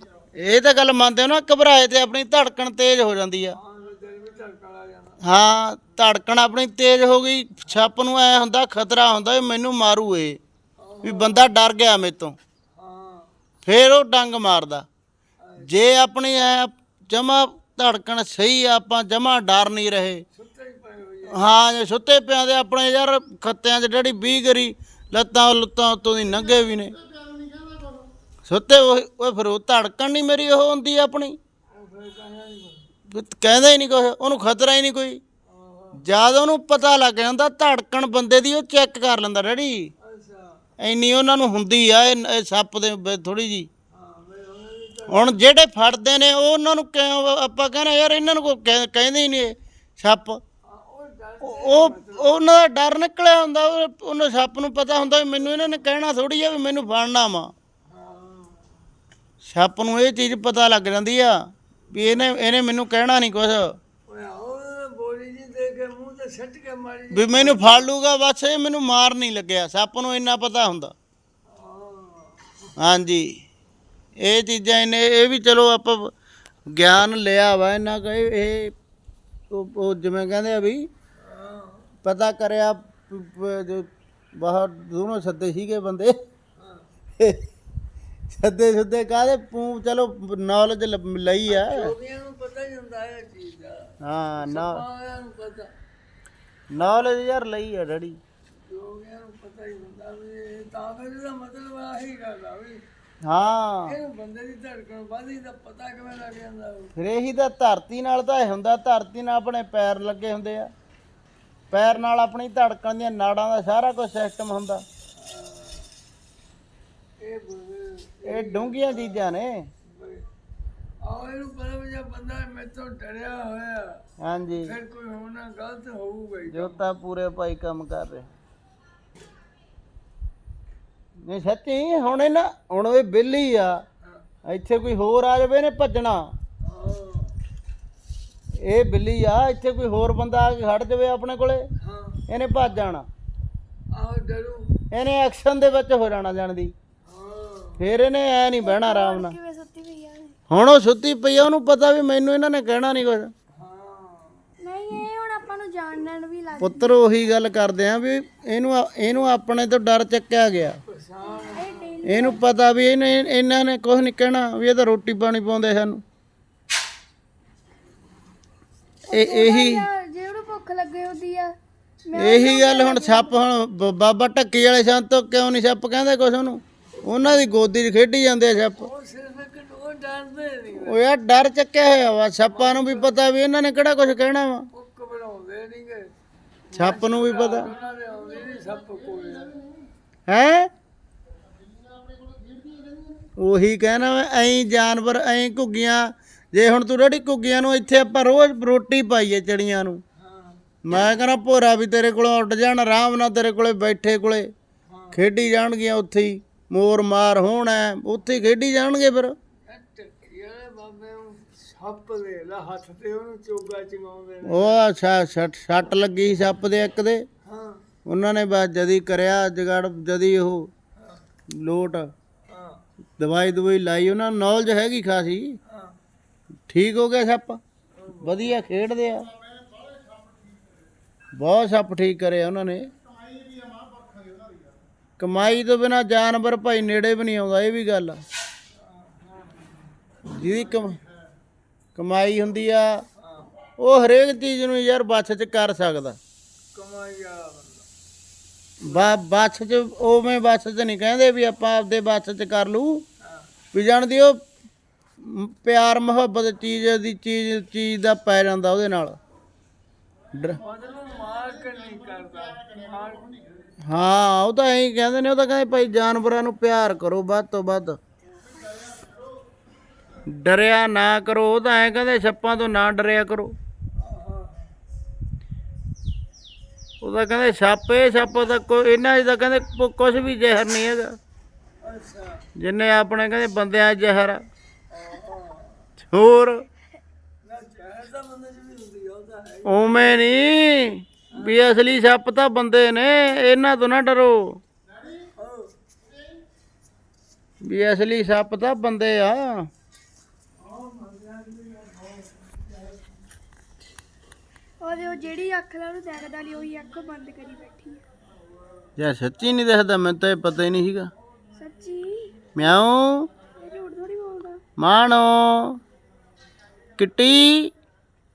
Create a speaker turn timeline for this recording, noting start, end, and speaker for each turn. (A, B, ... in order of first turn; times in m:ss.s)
0:00.3-0:03.6 A
0:03.5-0:05.2 B
0:05.2-0:10.4 A
0:10.8-0:11.5 B
0:11.0-0:12.4 A
0:12.7-0:13.3 B
0:13.6-0:14.8 A
0:15.4-0:15.7 B
0:15.6-0:20.2 A
0:20.3-0:21.5 B
0:21.3-0:27.0 A
0:28.4-0:31.4 A
0:31.7-0:32.9 B
0:33.1-0:35.2 A
0:35.4-0:36.0 B
0:36.0-0:39.9 A
0:40.0-0:40.6 B
0:40.8-0:43.7 A
0:43.9-0:45.4 B
0:45.1-0:50.4 A
0:50.6-0:52.4 B
0:51.4-0:57.5 A
0:57.9-0:58.8 B
0:59.4-1:03.8 A
1:01.9-1:02.4 B
1:04.1-1:08.0 B
1:07.1-1:10.9 A
1:11.5-1:12.7 B
1:12.8-1:13.4 A
1:14.2-1:16.1 A
1:16.7-1:18.7 A
1:19.5-1:20.8 A
1:21.2-1:21.9 B
1:22.0-1:26.2 A
1:26.6-1:26.9 B
1:27.2-1:27.5 A
1:28.3-1:31.9 A
1:31.5-1:35.7 B
1:34.0-1:34.8 A
1:36.7-1:38.2 A
1:38.5-1:42.8 B
1:43.2-1:44.0 A
1:43.8-1:46.9 B
1:47.0-1:50.7 A
1:51.7-1:54.8 A
1:55.1-1:55.9 B
1:57.2-1:59.2 B
1:58.3-1:59.7 A
1:59.8-2:00.3 B
2:01.0-2:04.0 B
2:04.2-2:04.7 A
2:04.6-2:06.8 B
2:06.5-2:08.3 A
2:11.2-2:13.8 A
2:14.0-2:14.3 B
2:14.4-2:16.2 A
2:16.6-2:17.4 B
2:18.6-2:21.7 A
2:21.8-2:22.2 B
2:22.3-2:23.1 A
2:23.9-2:24.8 B
2:24.9-2:26.7 A
2:27.0-2:27.8 B
2:27.8-2:29.4 A
2:28.6-2:30.4 C
2:30.5-2:33.3 A
2:33.5-2:34.5 B
2:34.6-2:37.0 C
2:36.6-2:40.8 A
2:40.9-2:42.0 B
2:41.4-2:42.4 C
2:42.0-2:46.0 A
2:49.1-2:49.8 A
2:49.1-2:53.4 C
2:52.1-2:58.9 A
2:58.8-3:01.0 B
3:00.8-3:04.6 A
3:02.4-3:03.1 B
3:04.7-3:06.1 B
3:06.7-3:09.6 B
3:06.7-3:07.7 A
3:10.3-3:10.7 A
3:13.4-3:20.0 A
3:20.2-3:20.6 B
3:20.8-3:24.5 A
3:24.9-3:25.2 B
3:25.1-3:29.3 A
3:29.7-3:34.8 B
3:34.4-3:37.2 A
3:37.4-3:37.8 B
3:38.0-3:40.7 A
3:40.9-3:41.2 B
3:41.5-3:42.1 A
3:42.5-3:42.8 B
3:43.2-3:45.6 A
3:45.6-3:46.0 B
3:46.7-3:47.6 A
3:48.0-3:48.6 B
3:48.2-3:49.3 A
3:51.4-3:52.9 A
3:55.2-3:58.2 A
3:58.7-3:59.9 B
4:00.3-4:01.0 A
4:02.0-4:03.0 A
4:03.2-4:03.5 B
4:03.8-4:06.2 A
4:06.7-4:07.9 B
4:08.8-4:13.0 A
4:08.9-4:09.2 B
4:13.2-4:13.5 B
4:13.7-4:14.4 A
4:15.2-4:19.2 A
4:20.3-4:20.6 A
4:20.6-4:23.7 B
4:23.8-4:28.0 A
4:30.2-4:33.6 A
4:33.9-4:34.8 B
4:37.0-4:41.2 A
4:41.8-4:42.4 B
4:42.6-4:44.4 A
4:44.9-4:45.9 B
4:46.0-4:46.6 A
4:47.4-4:50.3 B
4:49.6-4:54.6 A
4:51.3-4:51.6 B
4:55.2-4:55.7 B
4:57.6-4:59.7 A
5:00.6-5:03.0 B
5:04.8-5:08.0 C
5:09.0-5:11.1 A
5:11.6-5:12.4 C
5:12.6-5:13.3 A
5:13.6-5:14.6 C
5:14.8-5:15.8 A
5:17.0-5:17.7 A